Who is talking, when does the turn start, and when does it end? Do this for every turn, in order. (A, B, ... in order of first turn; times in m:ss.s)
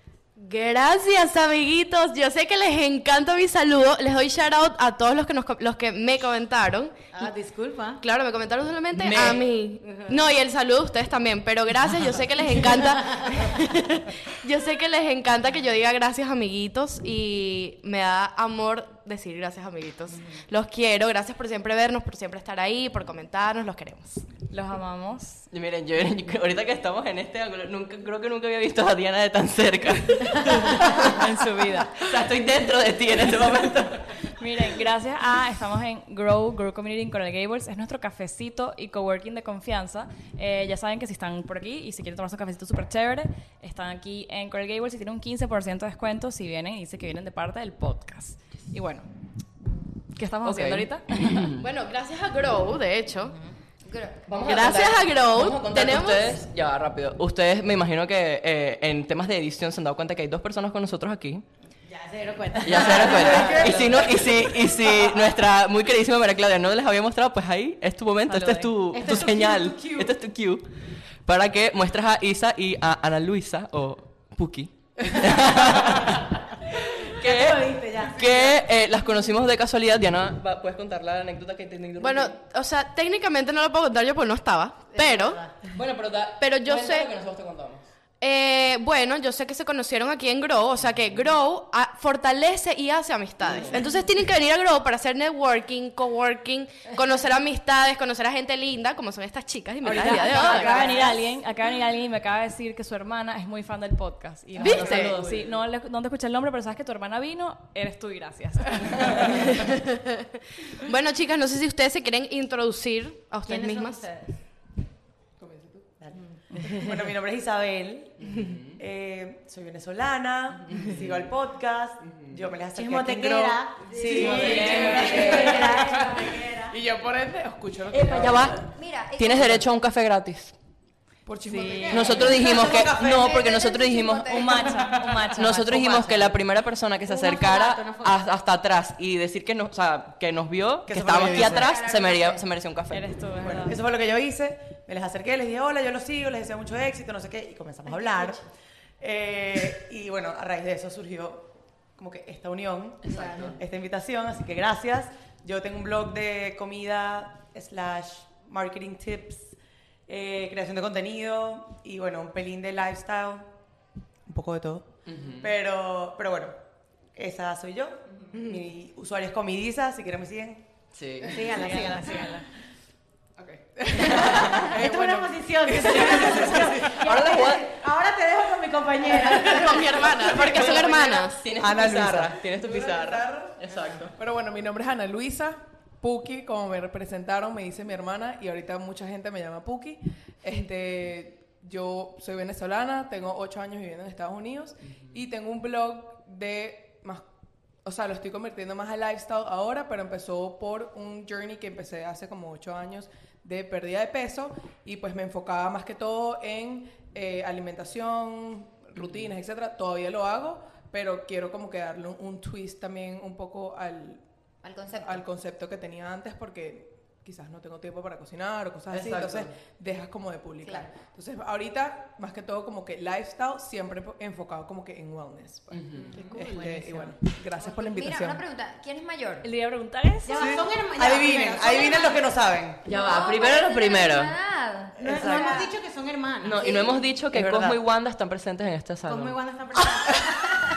0:00.4-0:07.0 A
0:07.1-0:08.0 B
0:08.0-0:24.2 A
0:08.9-0:09.5 C
0:09.8-0:10.2 B
0:13.1-0:13.4 B
0:24.5-0:25.4 D
0:25.5-0:31.2 C
0:30.6-0:32.0 D
0:31.9-0:34.1 C
0:34.4-0:49.1 D
0:50.1-0:51.5 D
0:50.4-0:51.6 C
0:51.6-0:53.3 A
0:53.8-0:54.2 E
0:54.3-1:01.4 C
0:54.4-0:56.4 A
1:01.9-1:05.1 B
1:02.6-1:10.6 C
1:03.0-1:03.9 F
1:08.3-1:08.7 D
1:08.9-1:10.1 B
1:11.2-1:16.4 C
1:17.1-1:22.4 C
1:17.2-1:18.6 B
1:22.0-1:25.4 A
1:24.9-1:25.5 B
1:25.7-1:27.8 C
1:26.4-1:27.1 A
1:28.2-1:41.0 A
1:30.8-1:31.3 C
1:33.4-1:33.8 C
1:39.9-1:40.2 F
1:39.9-1:49.5 D
1:40.7-1:41.0 B
1:44.6-1:45.2 A
1:44.6-1:45.5 C
1:44.6-1:45.4 G
1:49.2-1:50.2 A
1:50.8-1:54.0 A
1:53.4-1:54.3 B
1:55.4-1:55.9 G
1:56.0-2:04.9 F
1:58.2-1:58.8 C
2:00.7-2:01.2 C
2:02.1-2:02.3 C
2:02.7-2:06.8 B
2:03.9-2:08.6 G
2:04.1-2:05.4 D
2:04.4-2:05.7 C
2:07.9-2:10.5 C
2:08.6-2:09.7 E
2:11.2-2:12.4 G
2:11.5-2:12.2 D
2:11.6-2:12.2 B
2:11.9-2:23.1 C
2:12.1-2:14.9 E
2:12.4-2:13.3 F
2:14.3-2:16.1 D
2:14.8-2:15.2 G
2:15.8-2:16.3 F
2:17.0-2:18.3 B
2:20.9-2:21.7 F
2:21.3-2:22.4 E
2:22.9-2:23.8 D
2:23.4-2:28.4 F
2:29.0-2:39.5 F
2:33.0-2:33.6 C
2:40.1-2:43.5 F
2:44.2-2:46.6 F
2:45.0-2:45.5 C
2:47.1-2:50.6 F
2:50.9-2:52.1 C
2:51.3-2:52.4 B
2:53.4-2:54.7 G
2:53.9-2:54.9 C
2:53.9-3:00.7 B
2:54.8-2:55.3 D
2:55.6-2:56.9 G
2:55.8-2:57.7 C
2:59.3-3:01.4 A
3:00.1-3:04.1 C
3:01.6-3:03.7 F
3:04.1-3:17.2 G
3:14.9-3:15.2 C
3:17.8-3:34.2 G
3:34.6-3:35.2 E
3:35.0-3:48.4 G
3:38.9-3:39.5 C
3:39.1-3:39.4 F
3:40.6-3:40.9 E
3:45.7-3:46.3 C
3:46.1-3:46.4 E
3:46.1-3:47.1 B
3:47.6-3:49.5 E
3:49.4-3:50.6 D
3:50.2-3:52.2 B
3:51.0-3:52.8 F
3:52.8-3:54.3 C
3:52.8-3:55.7 E
3:55.0-3:55.6 F
3:55.0-3:56.7 B
3:56.4-3:59.4 C
3:56.6-3:57.0 E
3:57.3-3:57.8 F
3:59.1-4:00.6 B